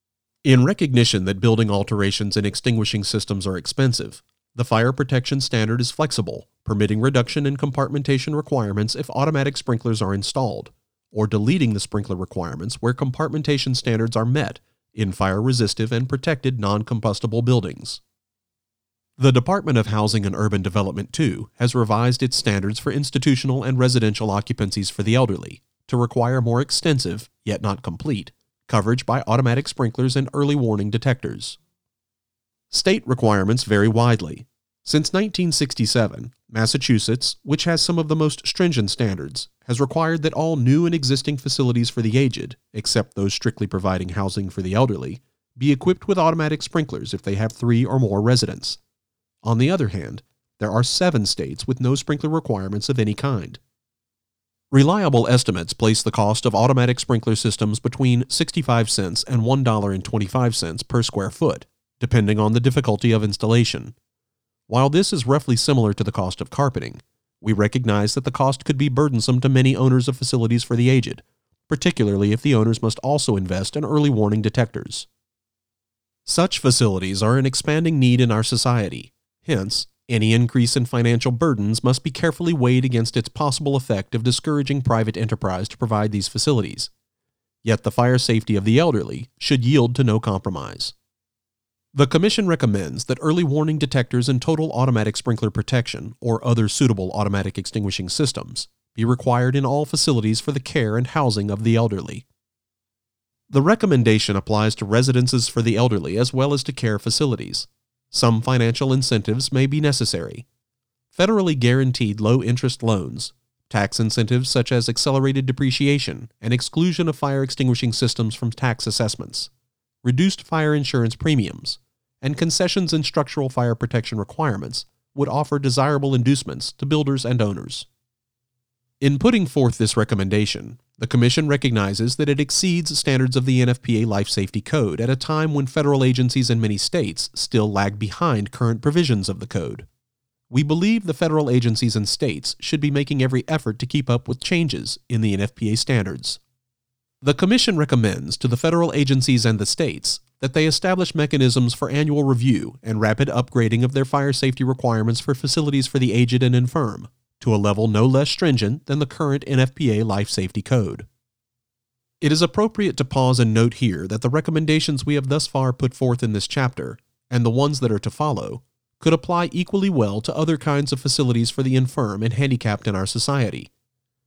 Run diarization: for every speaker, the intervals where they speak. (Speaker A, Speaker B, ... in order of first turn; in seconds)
Speaker A: 0.4-18.0, 19.2-31.6, 32.7-48.8, 49.4-53.6, 54.7-63.9, 64.7-75.1, 76.2-86.9, 87.6-90.9, 91.9-102.2, 103.5-110.5, 111.1-119.5, 120.0-127.9, 129.0-139.9, 140.5-146.4, 147.2-161.1, 162.2-173.7